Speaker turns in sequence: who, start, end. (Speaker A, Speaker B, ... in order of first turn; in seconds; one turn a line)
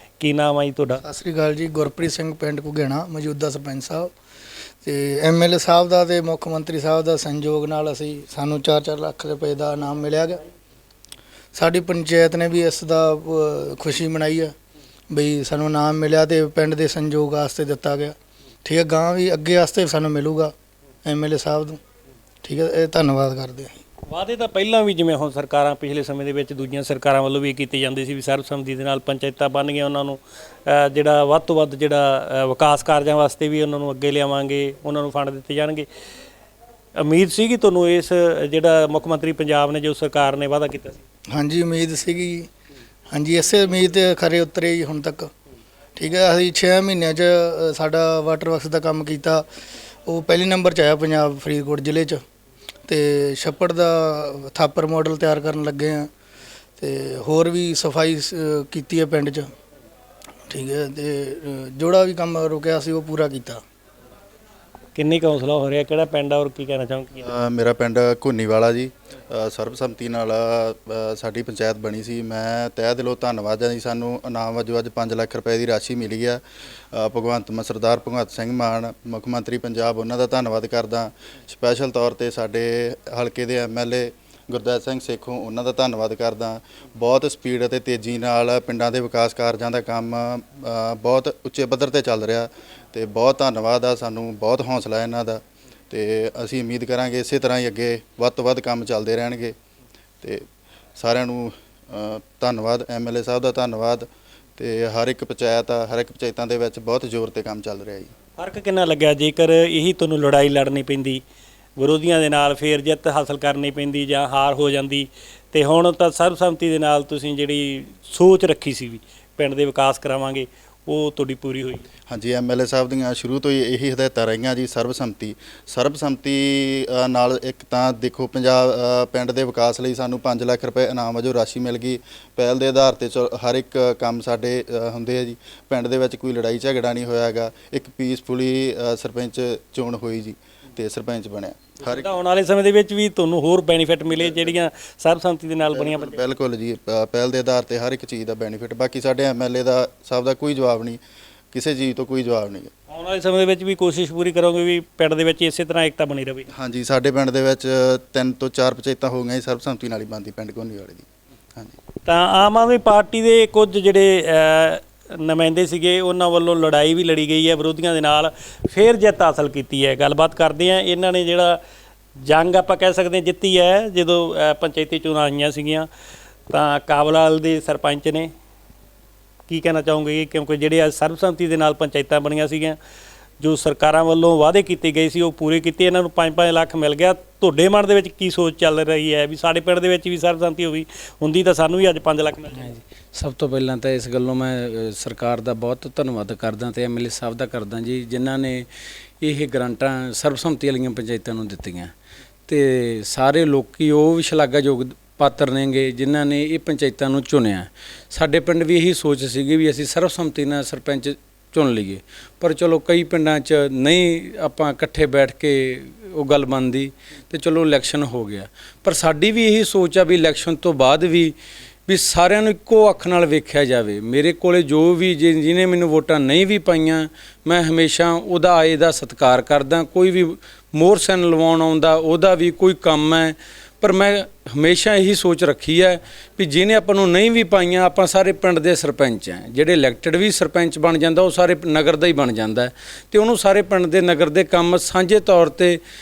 Speaker A: 0.2-1.0
Speaker B: 1.0-4.1
Speaker B: 4.8-10.4
Speaker B: 11.5-14.5
Speaker B: 15.1-20.5
Speaker B: 21.0-21.8
Speaker B: 22.4-23.8
Speaker A: 24.1-35.9
Speaker A: 37.0-41.0
Speaker B: 41.3-42.5
Speaker B: 43.1-45.3
Speaker B: 46.0-49.4
Speaker B: 50.1-52.2
Speaker B: 52.9-56.1
Speaker B: 56.8-59.5
Speaker B: 60.5-63.6
Speaker A: 64.9-67.2
Speaker C: 67.2-99.5
Speaker C: 101.0-108.1
Speaker A: 108.4-111.2
Speaker A: 111.8-121.8
Speaker C: 122.1-142.1
Speaker A: 141.8-146.2
Speaker C: 144.1-144.5
Speaker C: 145.7-151.0
Speaker C: 151.5-152.7
Speaker A: 152.9-156.5
Speaker C: 156.5-161.8
Speaker A: 162.1-171.6
Speaker A: 172.2-175.9
Speaker A: 176.5-178.3
Speaker A: 179.5-182.8
Speaker A: 183.4-192.7
Speaker D: 192.6-198.7
Speaker D: 199.2-201.9
Speaker D: 202.5-221.3
Speaker D: 221.9-245.8